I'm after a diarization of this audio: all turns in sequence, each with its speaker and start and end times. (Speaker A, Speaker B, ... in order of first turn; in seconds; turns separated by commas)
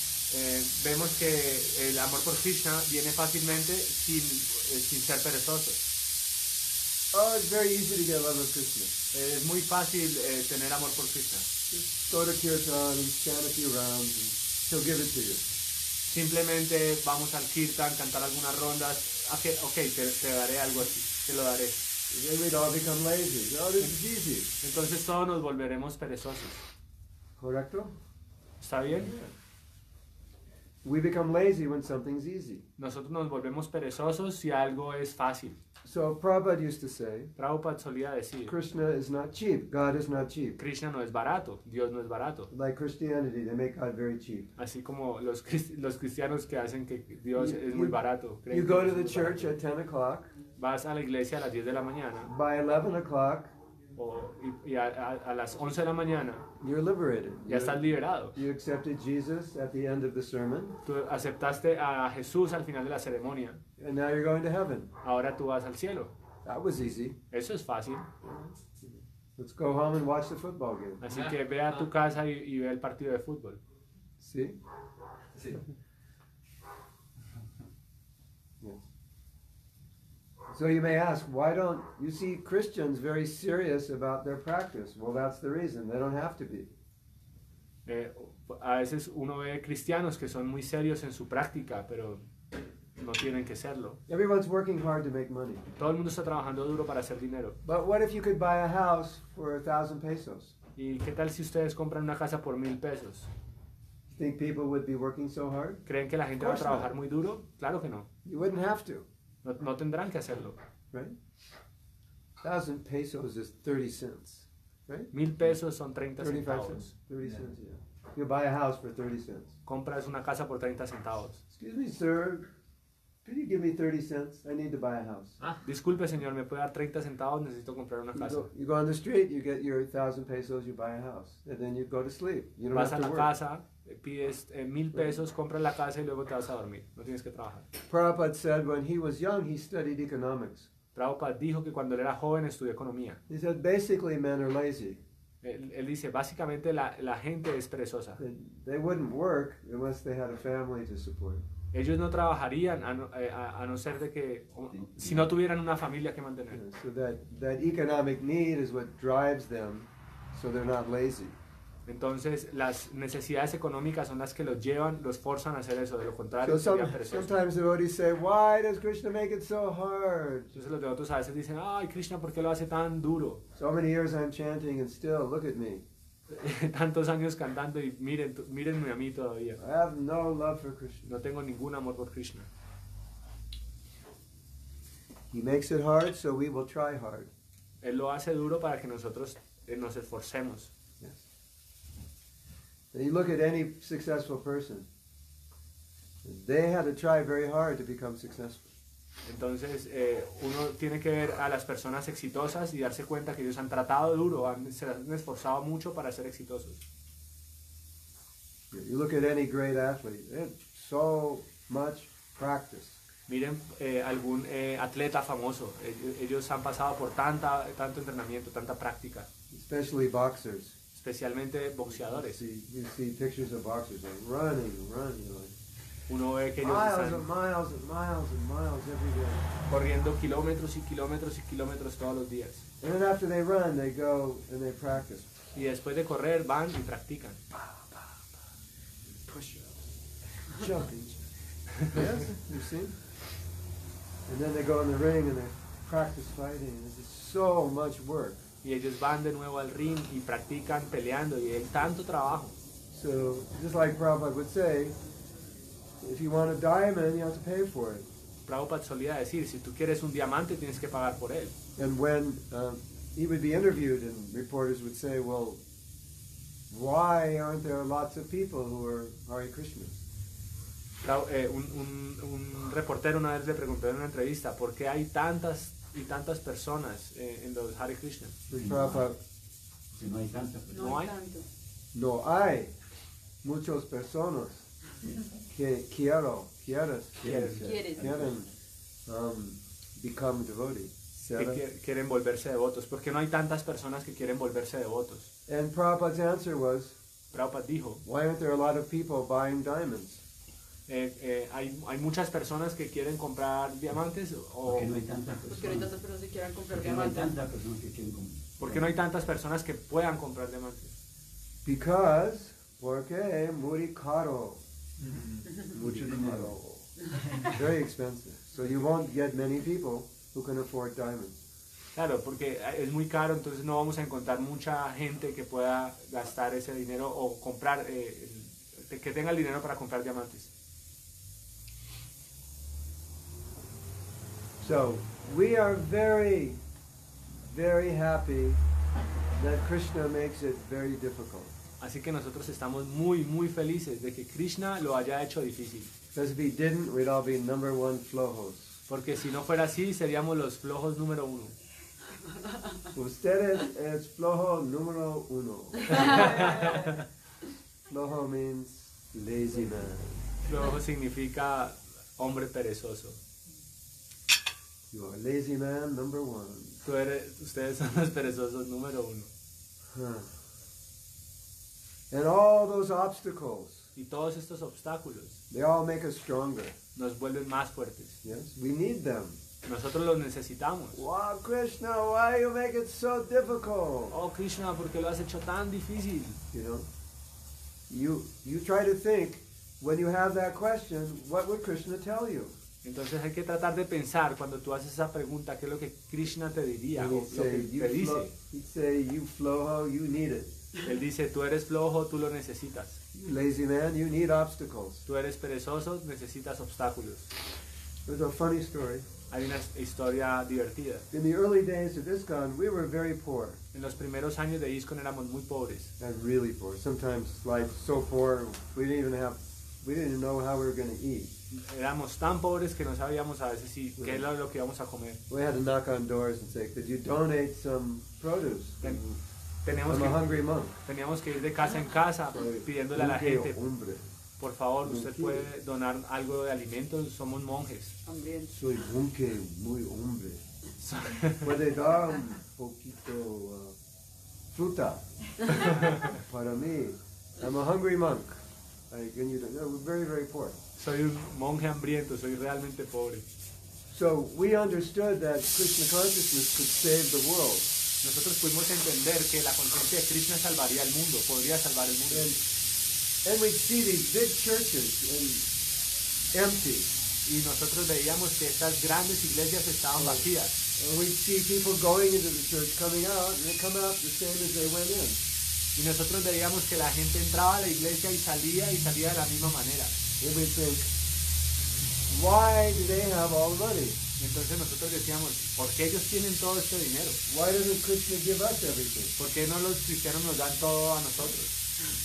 Speaker A: 0.3-5.8, Speaker B: 7.1-8.9, Speaker A: 9.1-11.5, Speaker B: 11.7-15.4, Speaker A: 16.1-21.8, Speaker B: 22.1-24.5, Speaker A: 24.6-26.6, Speaker B: 27.4-27.9, Speaker A: 28.6-29.1, Speaker B: 28.9-29.3, Speaker B: 30.8-32.6, Speaker A: 32.8-35.6, Speaker B: 35.8-37.3, Speaker A: 37.4-38.5, Speaker B: 38.5-40.6, Speaker A: 40.6-42.5, Speaker B: 42.5-44.5, Speaker A: 44.6-49.6, Speaker B: 47.4-50.3, Speaker A: 50.6-52.3, Speaker B: 52.3-53.5, Speaker A: 54.0-56.5, Speaker B: 56.6-60.8, Speaker A: 57.5-58.4, Speaker A: 60.9-63.6, Speaker B: 63.8-64.9, Speaker A: 65.0-66.1, Speaker B: 66.4-67.2, Speaker A: 67.3-68.1, Speaker B: 68.2-71.0, Speaker A: 71.0-73.6, Speaker B: 74.2-74.6, Speaker B: 80.5-86.7, Speaker A: 87.9-92.2, Speaker A: 93.0-94.0, Speaker B: 94.1-95.7, Speaker A: 95.8-97.6, Speaker B: 97.6-100.6, Speaker A: 100.8-103.3, Speaker B: 104.1-105.8, Speaker A: 105.9-108.1, Speaker B: 106.4-106.9, Speaker B: 108.2-109.1, Speaker A: 109.4-110.6, Speaker B: 112.4-115.1, Speaker A: 115.1-116.9, Speaker B: 116.2-119.5, Speaker A: 119.7-121.4, Speaker B: 121.5-122.5, Speaker B: 123.2-125.4, Speaker A: 125.4-128.5, Speaker B: 128.1-133.3, Speaker A: 132.7-137.7, Speaker B: 137.9-140.7, Speaker A: 140.9-143.2, Speaker B: 143.3-145.0, Speaker A: 145.4-148.2, Speaker B: 148.2-151.4, Speaker A: 151.7-156.6, Speaker C: 154.8-155.3, Speaker B: 156.5-161.4, Speaker A: 161.9-167.4, Speaker B: 166.4-170.5, Speaker A: 170.5-173.4, Speaker B: 173.6-175.8, Speaker A: 176.3-179.6, Speaker B: 179.6-181.1, Speaker A: 181.1-182.5, Speaker B: 185.3-187.3, Speaker A: 187.8-190.7, Speaker B: 192.9-194.9, Speaker B: 196.2-198.7, Speaker A: 199.2-206.8, Speaker B: 208.7-213.0, Speaker A: 213.3-219.3, Speaker B: 219.5-220.8, Speaker A: 220.9-222.4, Speaker B: 221.9-225.6, Speaker A: 226.1-227.3, Speaker B: 226.6-229.5, Speaker A: 229.7-232.7, Speaker B: 232.8-235.3, Speaker A: 235.5-237.4, Speaker B: 237.5-238.1, Speaker B: 239.1-240.0, Speaker B: 240.5-241.2, Speaker B: 241.8-243.0, Speaker B: 244.3-248.4, Speaker A: 248.6-252.6, Speaker B: 252.9-255.0, Speaker B: 256.0-258.1, Speaker A: 258.5-261.6, Speaker B: 261.8-265.6, Speaker B: 266.7-270.0, Speaker A: 271.0-278.4, Speaker B: 278.5-279.2, Speaker C: 278.5-279.1, Speaker C: 279.9-281.0, Speaker D: 280.7-281.5, Speaker A: 280.8-281.1, Speaker B: 281.9-282.7, Speaker B: 283.4-284.7, Speaker B: 285.5-288.5, Speaker C: 287.2-288.3, Speaker A: 287.2-287.8, Speaker D: 287.6-288.0, Speaker B: 289.1-291.6, Speaker A: 291.4-295.3, Speaker B: 295.5-297.0, Speaker A: 297.3-298.0, Speaker B: 298.1-300.2, Speaker A: 300.9-305.0, Speaker C: 304.7-306.0, Speaker D: 305.5-307.3, Speaker C: 306.7-308.9, Speaker A: 308.6-310.9, Speaker B: 311.6-314.6, Speaker C: 315.0-316.5, Speaker B: 315.6-321.4, Speaker A: 321.9-330.5, Speaker B: 334.6-336.6, Speaker B: 337.3-338.6, Speaker B: 339.4-341.6, Speaker A: 341.8-345.9, Speaker B: 346.1-348.8, Speaker A: 348.9-351.5, Speaker B: 352.9-356.5, Speaker A: 355.9-357.0, Speaker B: 357.9-360.2, Speaker A: 360.4-363.2, Speaker B: 364.9-366.8, Speaker A: 366.8-369.3, Speaker B: 369.9-370.3, Speaker B: 372.1-373.9, Speaker A: 374.0-375.4, Speaker B: 375.5-376.8, Speaker A: 377.0-378.2, Speaker B: 378.2-379.4, Speaker A: 379.6-381.0, Speaker B: 380.9-384.2, Speaker A: 384.1-386.4, Speaker B: 386.5-386.9, Speaker B: 387.9-392.6, Speaker A: 392.8-398.3, Speaker B: 396.9-400.6, Speaker A: 400.8-403.0, Speaker B: 403.1-405.1, Speaker A: 405.1-407.3, Speaker B: 408.1-409.1, Speaker A: 409.3-411.1, Speaker B: 411.1-413.6, Speaker A: 413.7-415.9, Speaker B: 416.0-421.3, Speaker A: 421.5-425.2, Speaker B: 424.0-424.2, Speaker B: 425.3-429.2, Speaker A: 429.6-433.6, Speaker B: 429.9-430.8, Speaker B: 432.4-434.1, Speaker A: 434.4-438.0, Speaker B: 434.8-435.5, Speaker D: 438.1-438.5, Speaker B: 438.5-440.4, Speaker A: 440.8-441.6, Speaker B: 441.4-443.8, Speaker B: 444.5-450.6, Speaker A: 445.7-446.0, Speaker A: 450.8-453.3, Speaker B: 453.9-457.7, Speaker A: 458.0-462.4, Speaker B: 462.1-462.4, Speaker B: 463.2-465.5, Speaker B: 466.3-466.9, Speaker A: 467.2-470.6, Speaker B: 470.0-470.2, Speaker B: 470.8-475.2, Speaker A: 475.8-480.0, Speaker B: 480.2-480.9, Speaker B: 482.1-484.0, Speaker A: 484.2-487.2, Speaker B: 487.3-489.1, Speaker A: 489.2-491.6